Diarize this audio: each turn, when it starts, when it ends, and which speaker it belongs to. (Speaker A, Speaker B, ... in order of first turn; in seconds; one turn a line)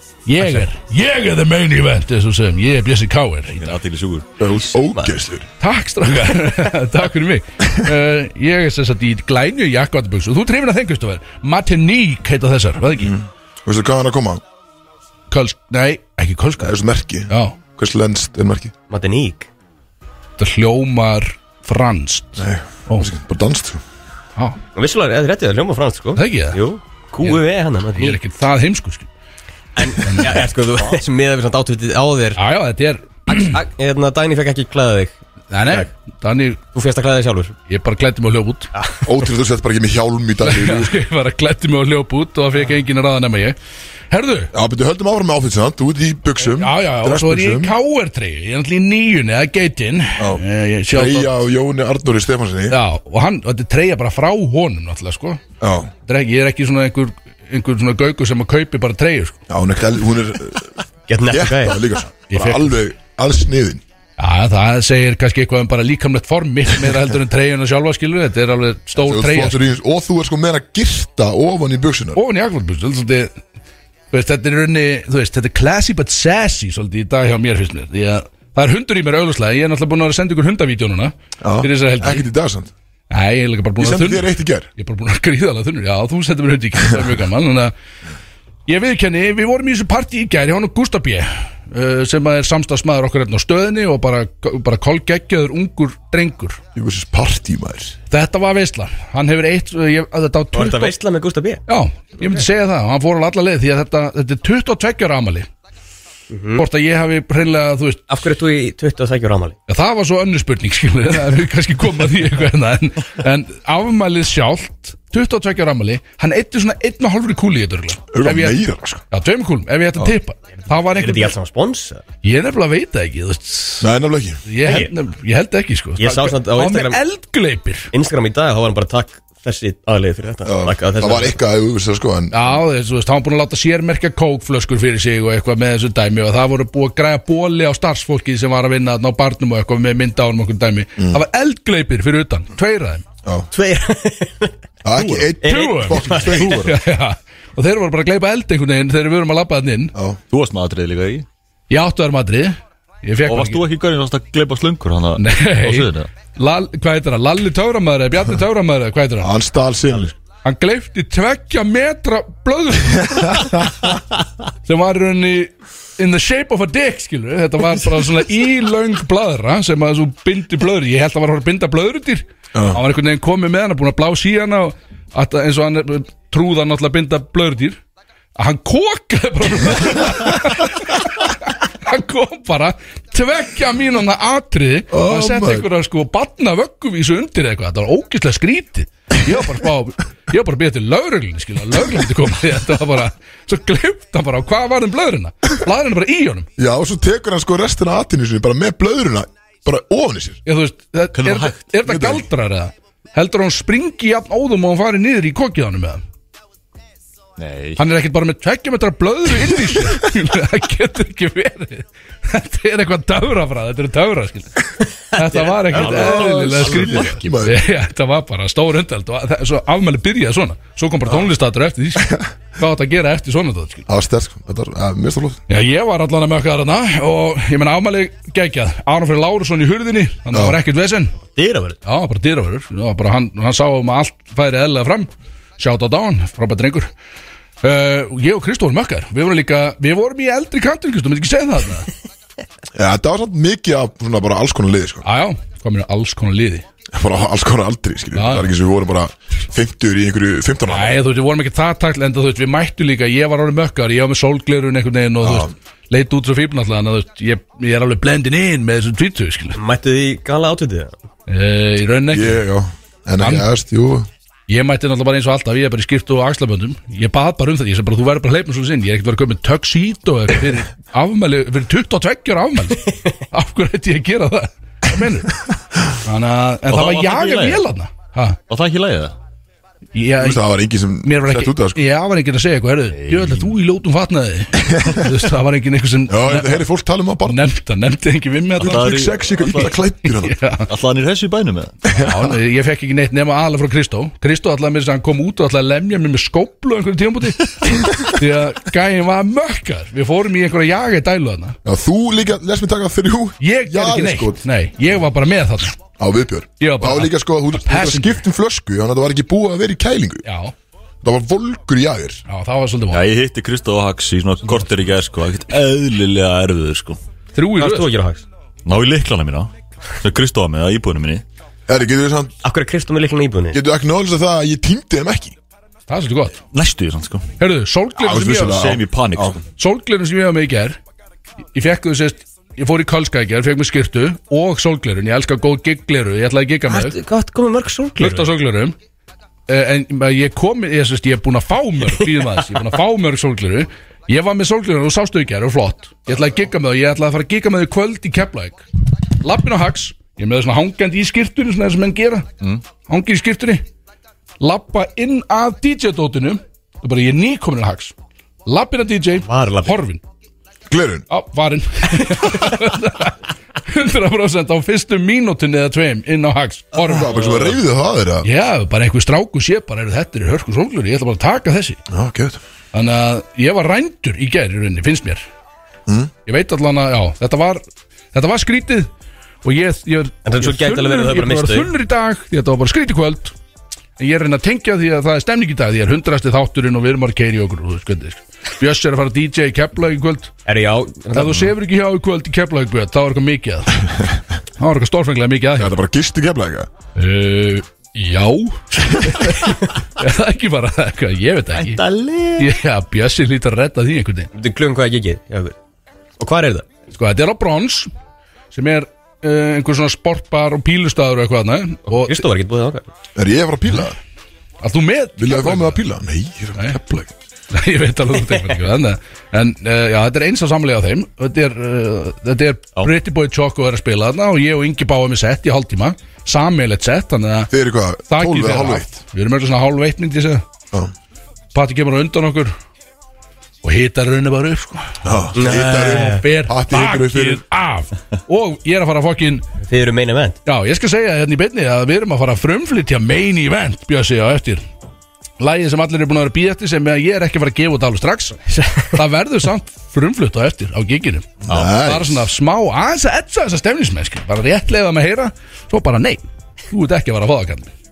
Speaker A: 0.3-3.8
Speaker B: 3.6-4.5
Speaker C: 4.4-5.5
Speaker A: 5.6-13.1
Speaker C: 13.0-14.4
Speaker A: 15.3-16.7
Speaker C: 16.6-18.7
Speaker A: 17.3-17.6
Speaker D: 18.9-19.5
Speaker A: 20.4-23.1
Speaker C: 22.4-23.8
Speaker D: 24.8-28.2
Speaker A: 26.2-26.6
Speaker A: 28.0-29.1
Speaker D: 29.8-32.4
Speaker A: 30.0-30.3
Speaker A: 32.4-33.6
Speaker D: 33.4-35.2
Speaker A: 35.5-36.6
Speaker D: 36.7-37.5
Speaker A: 37.7-38.7
Speaker D: 38.8-39.1
Speaker C: 39.0-41.0
Speaker A: 40.4-43.6
Speaker A: 44.1-44.5
Speaker C: 44.5-47.8
Speaker A: 46.5-51.3
Speaker C: 50.2-52.8
Speaker A: 52.7-55.4
Speaker C: 55.6-55.9
Speaker A: 56.1-59.4
Speaker C: 59.5-60.7
Speaker D: 61.1-61.8
Speaker C: 61.3-63.8
Speaker A: 62.3-62.7
Speaker A: 64.2-69.6
Speaker C: 69.0-72.2
Speaker A: 72.2-73.4
Speaker A: 74.1-82.3
Speaker C: 81.4-82.7
Speaker A: 83.1-87.7
Speaker C: 83.8-84.7
Speaker A: 88.7-96.6
Speaker C: 96.8-98.0
Speaker A: 98.1-101.0
Speaker D: 100.5-101.6
Speaker A: 101.7-105.5
Speaker D: 106.3-106.7
Speaker A: 106.6-108.0
Speaker D: 108.1-109.6
Speaker A: 109.7-121.4
Speaker C: 118.1-119.0
Speaker D: 120.9-122.0
Speaker A: 122.2-123.9
Speaker C: 123.8-124.4
Speaker A: 124.5-127.9
Speaker D: 124.7-124.9
Speaker D: 126.0-127.0
Speaker D: 127.9-131.4
Speaker C: 130.5-132.6
Speaker A: 132.3-143.1
Speaker C: 141.0-141.2
Speaker C: 143.2-143.5
Speaker D: 143.5-146.6
Speaker C: 144.8-146.6
Speaker A: 145.4-149.9
Speaker B: 146.2-146.8
Speaker C: 149.9-150.2
Speaker B: 150.3-151.3
Speaker A: 151.7-153.7
Speaker B: 153.3-156.1
Speaker A: 155.2-159.3
Speaker C: 159.2-160.2
Speaker A: 160.4-163.8
Speaker A: 164.7-177.8
Speaker C: 172.6-172.8
Speaker A: 178.4-196.5
Speaker C: 184.9-185.7
Speaker C: 196.6-200.4
Speaker A: 200.5-206.0
Speaker B: 201.2-201.7
Speaker C: 201.9-202.3
Speaker B: 207.4-207.8
Speaker A: 207.8-223.8
Speaker D: 215.2-216.3
Speaker B: 215.7-217.3
Speaker C: 215.8-217.6
Speaker C: 223.9-225.4
Speaker A: 225.5-231.2
Speaker C: 230.3-230.6
Speaker D: 231.3-231.8
Speaker A: 231.8-236.9
Speaker A: 237.6-241.9
Speaker C: 242.8-245.1
Speaker A: 245.0-246.7
Speaker C: 246.9-251.0
Speaker A: 248.2-248.5
Speaker A: 250.7-259.6
Speaker C: 255.2-255.5
Speaker D: 259.6-260.9
Speaker A: 261.3-262.4
Speaker C: 262.1-264.1
Speaker A: 263.2-263.5
Speaker A: 264.5-275.4
Speaker A: 276.0-278.4
Speaker B: 276.7-277.6
Speaker B: 278.5-279.1
Speaker A: 279.9-280.4
Speaker C: 280.2-281.8
Speaker A: 281.0-286.6
Speaker B: 282.9-283.5
Speaker C: 284.7-285.0
Speaker C: 286.1-287.4
Speaker A: 287.2-290.7
Speaker B: 288.6-289.8
Speaker C: 288.6-290.4
Speaker B: 290.7-291.9
Speaker A: 291.9-301.6
Speaker C: 301.6-304.4
Speaker A: 303.4-305.8
Speaker C: 306.0-310.2
Speaker A: 306.6-308.2
Speaker A: 310.2-310.5
Speaker C: 311.0-312.2
Speaker A: 312.3-313.0
Speaker B: 312.9-317.0
Speaker A: 317.3-317.9
Speaker D: 317.6-318.2
Speaker B: 318.6-319.5
Speaker B: 320.0-321.2
Speaker C: 321.7-322.4
Speaker D: 322.4-323.6
Speaker C: 323.5-325.4
Speaker A: 325.9-326.4
Speaker B: 326.5-327.2
Speaker A: 327.4-328.7
Speaker C: 328.0-329.4
Speaker B: 328.5-329.4
Speaker A: 329.6-330.8
Speaker A: 331.6-336.9
Speaker D: 336.7-338.3
Speaker A: 338.0-338.8
Speaker A: 339.5-348.6
Speaker A: 349.2-352.3
Speaker A: 352.9-353.6
Speaker A: 354.4-357.9
Speaker A: 358.5-360.0
Speaker D: 359.2-359.8
Speaker C: 360.7-361.1
Speaker A: 361.1-367.3
Speaker C: 366.8-368.3
Speaker A: 368.2-371.8
Speaker C: 371.9-372.4
Speaker A: 372.7-375.3
Speaker C: 375.9-376.1
Speaker A: 376.3-377.6
Speaker A: 378.1-378.9
Speaker A: 379.4-383.3
Speaker D: 380.2-381.7
Speaker A: 384.0-390.3
Speaker D: 390.5-391.4
Speaker A: 391.1-393.9
Speaker A: 394.6-395.8
Speaker C: 395.6-396.7
Speaker A: 397.0-401.8
Speaker B: 401.6-402.4
Speaker A: 402.4-404.3
Speaker D: 404.4-405.6
Speaker D: 406.2-406.7
Speaker A: 406.9-407.9
Speaker A: 408.5-412.2
Speaker D: 411.9-412.9
Speaker C: 413.2-414.0
Speaker A: 414.6-415.8
Speaker C: 415.2-417.1
Speaker A: 417.5-427.5
Speaker C: 427.5-429.0
Speaker A: 428.1-430.4
Speaker A: 431.5-432.5
Speaker A: 433.6-435.0
Speaker C: 435.0-437.4
Speaker D: 435.4-436.2
Speaker A: 435.6-439.5
Speaker D: 439.7-440.4
Speaker A: 440.5-444.6
Speaker A: 445.4-448.4
Speaker D: 448.5-449.0
Speaker A: 448.9-457.7
Speaker C: 451.5-452.2
Speaker B: 451.5-451.8